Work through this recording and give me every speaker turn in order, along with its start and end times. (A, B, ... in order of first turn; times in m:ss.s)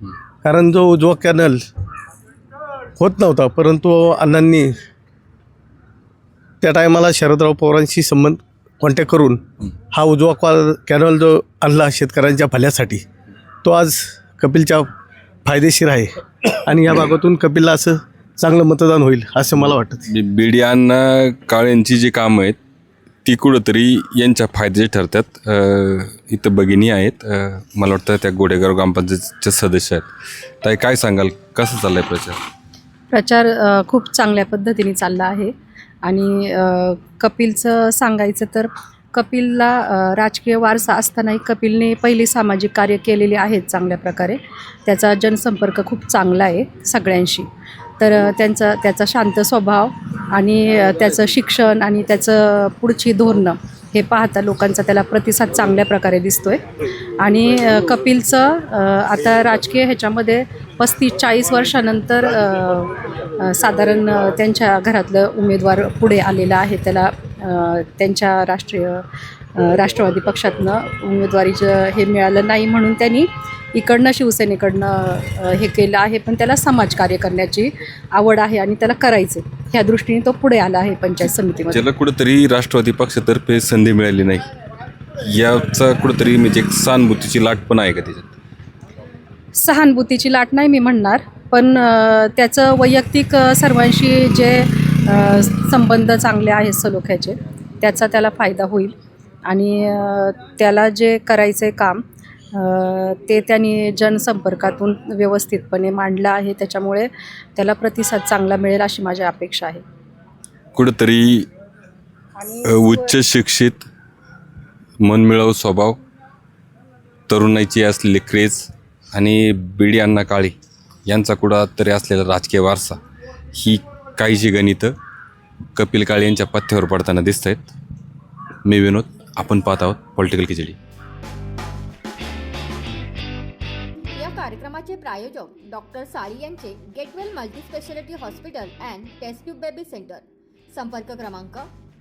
0:00.4-0:01.6 A
0:03.0-0:04.7 A
0:06.6-0:13.0 A
0:13.6-0:14.9 A
0:15.4-0:16.1 A
0:16.7-0:20.1 A
0:20.1-0:22.6 B
0:23.2-0:30.1 B
0:30.6-0:32.4 B
0:33.1-0:47.5 C
0:48.0-0:56.6 C
0:57.2-1:09.0 C
1:09.6-1:21.8 C
1:21.7-1:24.4 B
1:25.2-1:28.3 B
1:29.6-1:38.9 C
1:39.4-1:42.0 C
1:42.5-1:49.8 C
1:50.7-1:51.5 B
1:52.4-1:53.2 C
1:52.7-1:53.8 B
1:55.0-1:56.0 B
1:57.3-2:00.6 B
2:01.1-2:03.0 B
2:03.5-2:05.0 B
2:05.8-2:07.7 B
2:08.6-2:10.8 B
2:14.2-2:21.7 D